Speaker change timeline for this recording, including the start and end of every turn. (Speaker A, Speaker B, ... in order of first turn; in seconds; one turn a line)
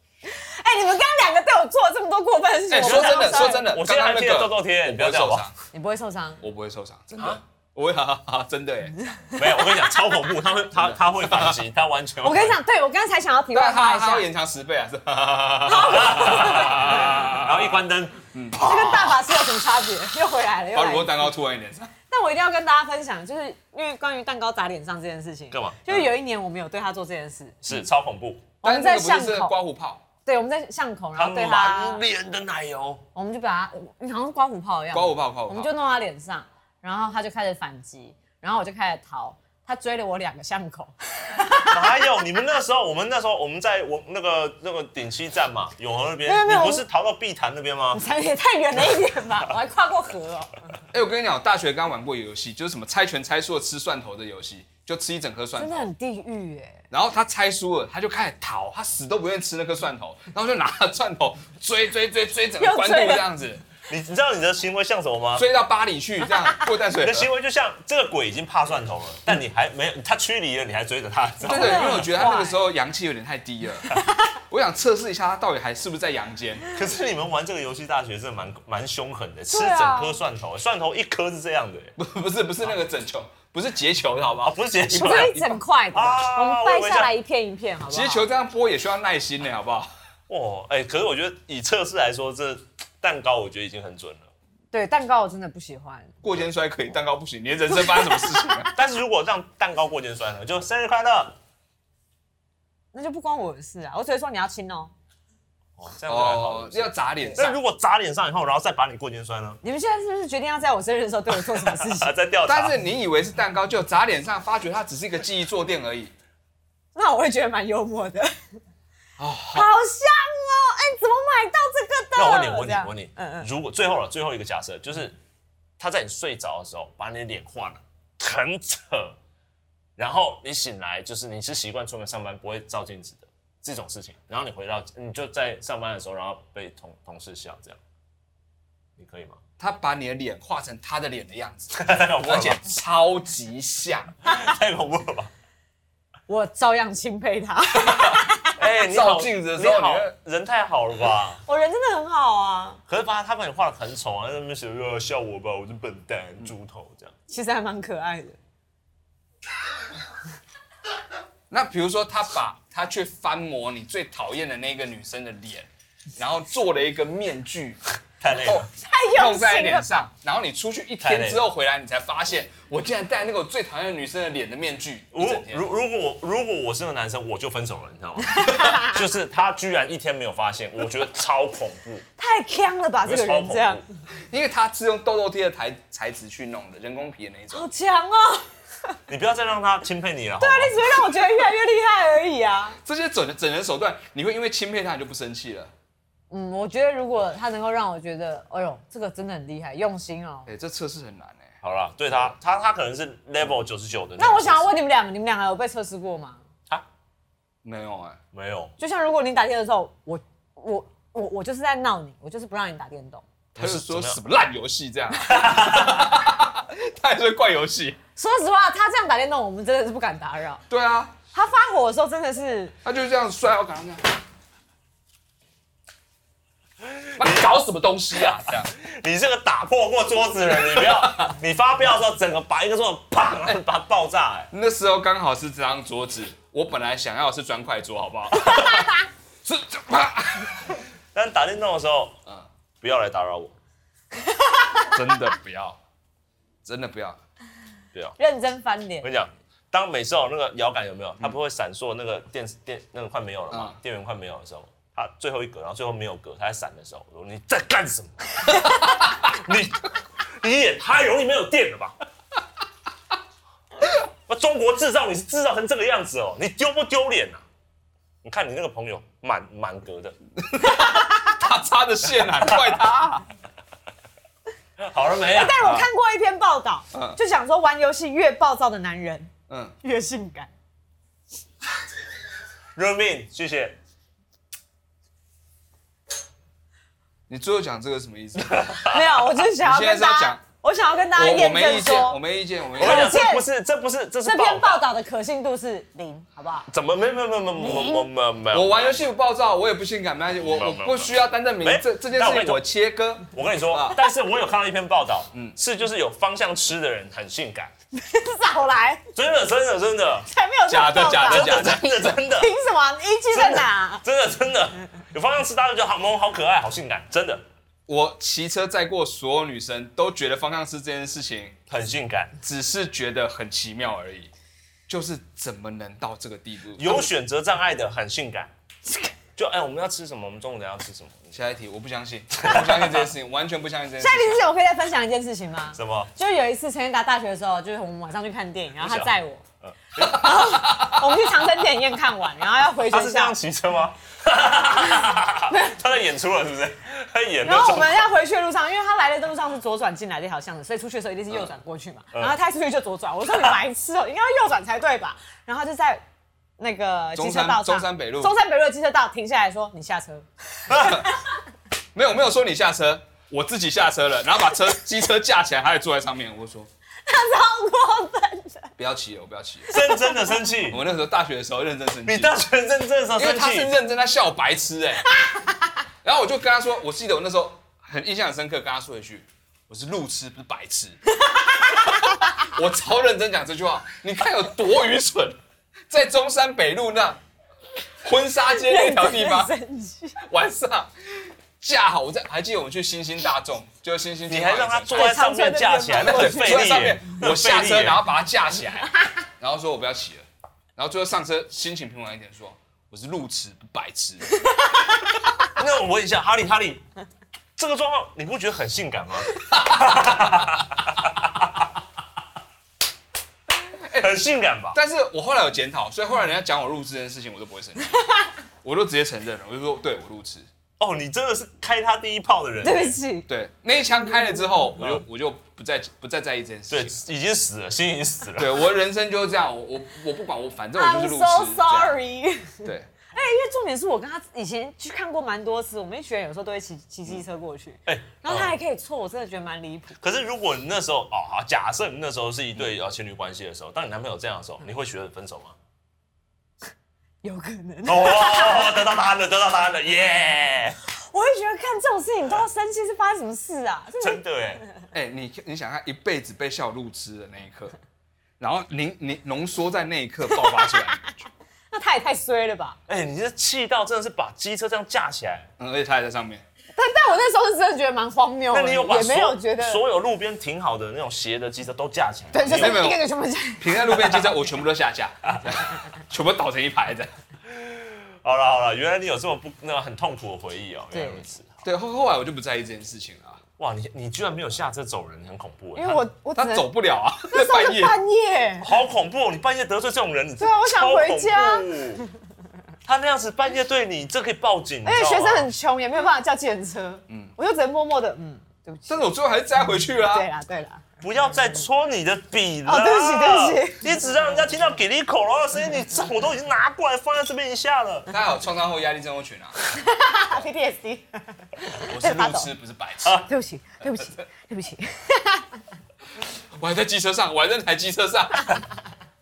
Speaker A: 0.2-3.7
Speaker B: 2.7-5.5
Speaker C: 2.8-5.5
Speaker A: 5.7-6.4
Speaker B: 6.4-9.0
Speaker A: 9.1-10.2
Speaker C: 9.4-12.6
Speaker B: 10.8-11.6
Speaker A: 12.2-14.3
Speaker B: 13.5-17.8
Speaker A: 15.7-17.1
Speaker C: 15.8-19.2
Speaker B: 18.3-18.7
Speaker A: 18.6-21.3
Speaker B: 20.7-21.9
Speaker A: 22.1-27.6
Speaker C: 25.5-25.8
Speaker C: 27.6-28.5
Speaker A: 28.6-29.6
Speaker B: 28.6-30.0
Speaker A: 30.2-32.0
Speaker C: 31.2-33.0
Speaker A: 33.1-42.0
Speaker B: 34.9-35.7
Speaker C: 41.7-48.0
Speaker A: 46.2-46.9
Speaker A: 47.9-50.7
Speaker B: 50.9-55.9
Speaker A: 55.6-56.9
Speaker B: 56.9-63.7
Speaker A: 62.6-63.3
Speaker C: 63.9-65.5
Speaker B: 65.3-67.3
Speaker C: 67.0-72.2
Speaker B: 71.4-74.0
Speaker A: 71.5-72.6
Speaker A: 73.9-74.3
Speaker B: 74.5-76.7
Speaker C: 76.7-81.9
Speaker A: 79.5-80.2
Speaker B: 82.0-85.4
Speaker C: 84.5-87.1
Speaker A: 84.9-88.2
Speaker B: 87.9-89.9
Speaker C: 90.3-94.3
Speaker A: 94.7-96.2
Speaker B: 96.2-98.7
Speaker A: 97.7-98.7
Speaker C: 98.8-101.4
Speaker A: 102.9-104.9
Speaker C: 105.8-109.6
Speaker B: 106.1-107.5
Speaker A: 109.6-112.1
Speaker C: 111.3-112.8
Speaker B: 112.5-116.1
Speaker A: 117.0-118.5
Speaker B: 119.2-119.7
Speaker A: 119.5-123.5
Speaker C: 122.2-125.2
Speaker C: 125.8-129.2
Speaker C: 130.0-137.8
Speaker C: 139.0-139.4
Speaker B: 139.6-144.2
Speaker C: 141.7-142.6
Speaker C: 144.2-145.3
Speaker A: 146.3-148.6
Speaker C: 148.6-151.4
Speaker B: 148.9-150.1
Speaker A: 151.4-152.8
Speaker C: 152.9-157.1
Speaker A: 157.3-158.4
Speaker B: 161.5-167.8
Speaker C: 168.2-168.7
Speaker B: 168.4-175.7
Speaker A: 168.8-169.9
Speaker C: 171.0-171.4
Speaker C: 175.1-182.1
Speaker A: 178.4-178.9
Speaker A: 182.2-183.8
Speaker C: 183.1-183.8
Speaker B: 184.3-187.7
Speaker A: 187.5-189.0
Speaker C: 189.1-191.1
Speaker A: 190.4-192.8
Speaker B: 192.8-195.7
Speaker A: 196.3-200.5
Speaker B: 200.5-201.6
Speaker C: 201.6-204.7
Speaker A: 204.2-206.4
Speaker B: 207.6-208.2
Speaker C: 208.3-208.7
Speaker A: 208.8-213.2
Speaker C: 213.6-214.2
Speaker B: 213.6-218.0
Speaker C: 215.3-216.0
Speaker A: 218.2-220.6
Speaker B: 220.7-221.2
Speaker A: 221.3-222.8
Speaker B: 222.8-224.2
Speaker C: 226.8-227.6
Speaker B: 227.2-228.7
Speaker C: 228.7-234.5
Speaker B: 230.6-231.3
Speaker B: 234.5-240.8
Speaker A: 238.5-238.9
Speaker C: 241.1-242.2
Speaker C: 242.8-243.6
Speaker A: 244.2-244.9
Speaker B: 244.9-245.8
Speaker B: 246.7-247.2
Speaker A: 248.2-249.1
Speaker C: 249.0-262.0
Speaker B: 253.5-253.8
Speaker C: 263.9-267.4
Speaker C: 268.2-270.2
Speaker B: 270.4-273.2
Speaker C: 274.8-275.8
Speaker A: 275.3-279.3
Speaker B: 276.9-277.2
Speaker B: 279.5-279.7
Speaker A: 279.8-280.5
Speaker C: 282.8-283.8
Speaker B: 287.3-290.4
Speaker C: 288.4-289.0
Speaker A: 288.9-292.2
Speaker B: 291.1-293.2
Speaker C: 292.8-294.9
Speaker A: 292.8-293.5
Speaker A: 294.2-296.7
Speaker C: 296.7-298.9
Speaker A: 297.6-298.1
Speaker B: 298.5-304.0
Speaker C: 300.4-302.6
Speaker C: 303.3-307.7
Speaker A: 307.9-309.1
Speaker C: 309.1-310.3
Speaker A: 310.3-311.7
Speaker B: 310.7-312.2
Speaker C: 311.1-312.5
Speaker A: 312.3-314.0
Speaker C: 313.3-317.4
Speaker B: 317.9-321.6
Speaker C: 321.7-322.4
Speaker B: 322.4-324.3
Speaker B: 324.9-327.1
Speaker C: 326.8-328.5
Speaker C: 329.4-331.3
Speaker B: 331.3-334.5
Speaker C: 332.5-333.0
Speaker A: 334.0-339.4
Speaker C: 335.7-336.1
Speaker C: 338.8-340.6
Speaker A: 340.0-343.4
Speaker B: 340.5-340.8
Speaker C: 342.9-348.1
Speaker A: 345.5-345.8
Speaker A: 347.4-356.0
Speaker A: 356.6-361.4
Speaker B: 357.2-358.3
Speaker C: 360.7-361.1
Speaker B: 360.8-361.1
Speaker B: 361.9-366.7
Speaker A: 367.1-368.7
Speaker B: 368.8-369.7
Speaker A: 369.7-370.4
Speaker C: 369.7-370.9
Speaker B: 370.7-372.3
Speaker C: 372.1-373.8
Speaker B: 373.2-375.1
Speaker A: 375.2-375.5
Speaker B: 376.0-381.0
Speaker A: 381.2-382.5
Speaker B: 381.8-385.4
Speaker B: 385.9-387.2
Speaker B: 388.0-389.5
Speaker A: 388.5-390.2
Speaker B: 390.2-395.1
Speaker C: 394.3-398.1
Speaker A: 394.9-396.8
Speaker B: 396.0-400.2
Speaker B: 400.8-404.3
Speaker A: 404.6-404.9
Speaker C: 405.6-406.8
Speaker C: 407.6-411.7
Speaker B: 409.5-410.2
Speaker B: 413.9-414.2
Speaker C: 413.9-414.8
Speaker B: 414.7-418.1
Speaker B: 418.6-420.5
Speaker C: 420.8-423.0
Speaker A: 422.6-423.3
Speaker B: 423.3-427.0
Speaker C: 426.7-428.6
Speaker B: 428.4-432.0
Speaker A: 430.8-440.0
Speaker B: 432.6-432.9
Speaker C: 437.9-438.6
Speaker C: 440.0-445.6
Speaker A: 447.2-448.9
Speaker C: 447.9-450.8
Speaker A: 451.1-454.2
Speaker C: 454.0-454.6
Speaker B: 454.9-457.8
Speaker B: 458.4-461.3
Speaker A: 461.7-462.8
Speaker C: 462.9-465.5
Speaker B: 465.6-466.4
Speaker A: 466.8-469.8
Speaker C: 468.5-472.9
Speaker A: 472.3-473.9
Speaker B: 472.5-473.0
Speaker B: 473.6-477.1
Speaker C: 477.5-481.7
Speaker A: 480.9-481.2
Speaker B: 481.6-483.4
Speaker C: 483.6-486.1
Speaker A: 485.8-486.7
Speaker B: 486.4-488.0
Speaker A: 487.3-488.7
Speaker C: 488.6-492.0
Speaker A: 490.4-491.7
Speaker C: 492.9-495.5
Speaker A: 494.8-499.1
Speaker B: 497.1-497.4
Speaker B: 498.9-500.3
Speaker A: 500.1-500.9
Speaker C: 501.0-508.1
Speaker A: 502.7-504.0
Speaker B: 508.1-509.6
Speaker A: 509.7-512.5
Speaker B: 511.8-513.3
Speaker A: 513.3-515.6
Speaker B: 516.6-518.6